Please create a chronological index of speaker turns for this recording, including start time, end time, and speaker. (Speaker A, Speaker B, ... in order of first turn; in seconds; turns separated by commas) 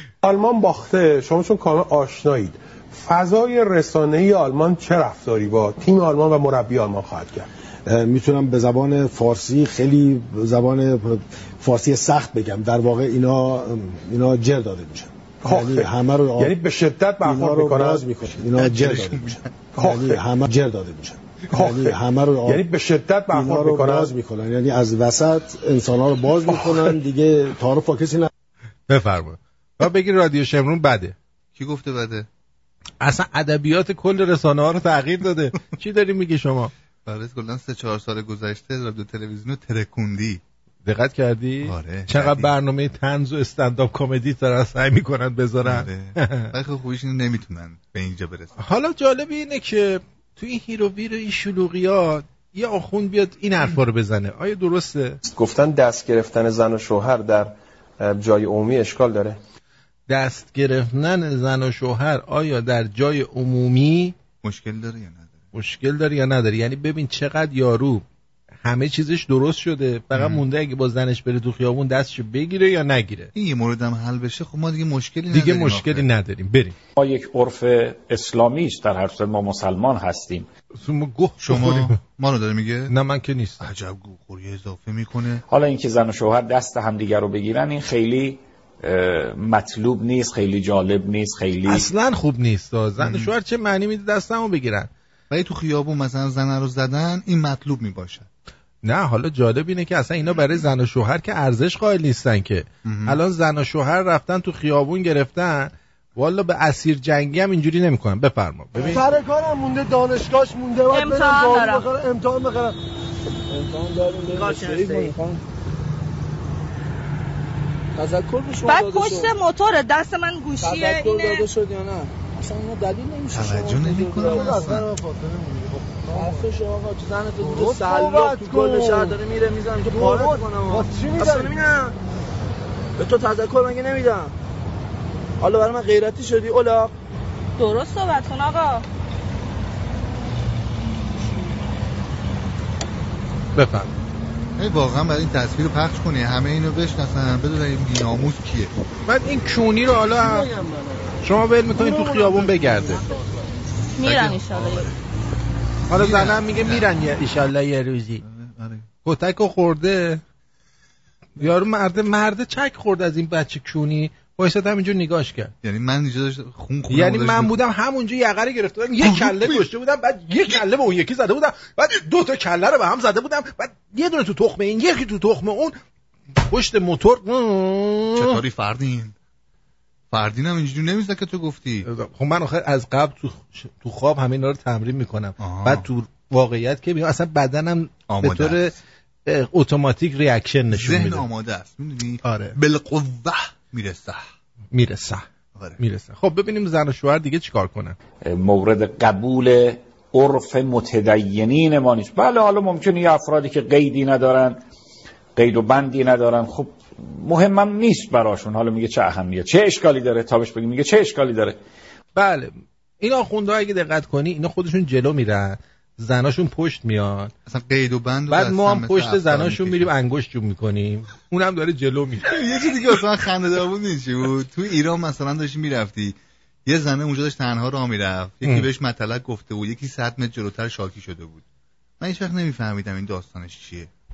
Speaker A: 0.2-7.5, Speaker B: 7.9-16.6, Speaker A: 15.4-18.4, Speaker B: 17.2-22.6, Speaker C: 18.3-19.5, Speaker A: 19.8-20.2, Speaker A: 21.5-24.1, Speaker B: 23.3-28.3, Speaker D: 28.9-31.1, Speaker C: 31.6-32.3, Speaker D: 33.0-36.7, Speaker C: 37.0-40.4, Speaker D: 40.9-46.5, Speaker C: 41.6-42.5, Speaker C: 45.6-48.5, Speaker D: 48.6-55.2, Speaker E: 55.3-59.4, Speaker D: 60.1-64.2, Speaker C: 64.4-65.4, Speaker D: 65.5-68.0, Speaker D: 68.7-73.3, Speaker C: 70.1-70.4, Speaker C: 73.3-76.1, Speaker D: 75.3-76.8, Speaker F: 77.0-80.5, Speaker D: 80.8-82.0, Speaker C: 81.4-82.9, Speaker D: 82.9-83.7, Speaker C: 83.6-85.4, Speaker F: 85.5-91.9, Speaker D: 91.7-94.9, Speaker C: 93.0-93.3, Speaker C: 95.3-98.3, Speaker D: 98.8-109.0, Speaker C: 102.8-103.2, Speaker G: 108.9-112.7, Speaker H: 110.9-111.9, Speaker G: 113.5-115.4, Speaker H: 114.4-115.1, Speaker G: 118.0-119.3, Speaker H: 118.7-121.5, Speaker G: 120.6-124.9, Speaker C: 123.3-124.9, Speaker G: 126.1-131.9, Speaker G: 133.0-134.3, Speaker G: 135.4-136.9, Speaker H: 137.6-138.8, Speaker D: 143.6-143.9, Speaker C: 144.6-148.7, Speaker D: 149.1-150.5, Speaker D: 151.2-153.1, Speaker H: 154.0-154.9, Speaker C: 154.0-155.0, Speaker D: 155.9-158.2, Speaker C: 155.9-157.0, Speaker C: 158.2-158.9, Speaker D: 159.1-160.2, Speaker D: 161.4-165.5, Speaker C: 165.6-167.6, Speaker D: 166.9-175.8, Speaker C: 169.0-169.7, Speaker D: 176.4-178.4, Speaker C: 178.2-179.2, Speaker C: 180.1-181.9, Speaker D: 181.8-188.7, Speaker C: 185.4-185.9, Speaker C: 188.1-188.8, Speaker D: 189.3-191.3, Speaker C: 190.7-194.3, Speaker D: 192.2-192.6, Speaker D: 194.7-195.2, Speaker D: 195.8-198.0, Speaker F: 198.2-204.6, Speaker F: 205.4-211.6, Speaker D: 212.2-217.3, Speaker C: 217.5-219.9, Speaker D: 218.3-222.3, Speaker C: 222.2-231.4, Speaker C: 232.0-233.9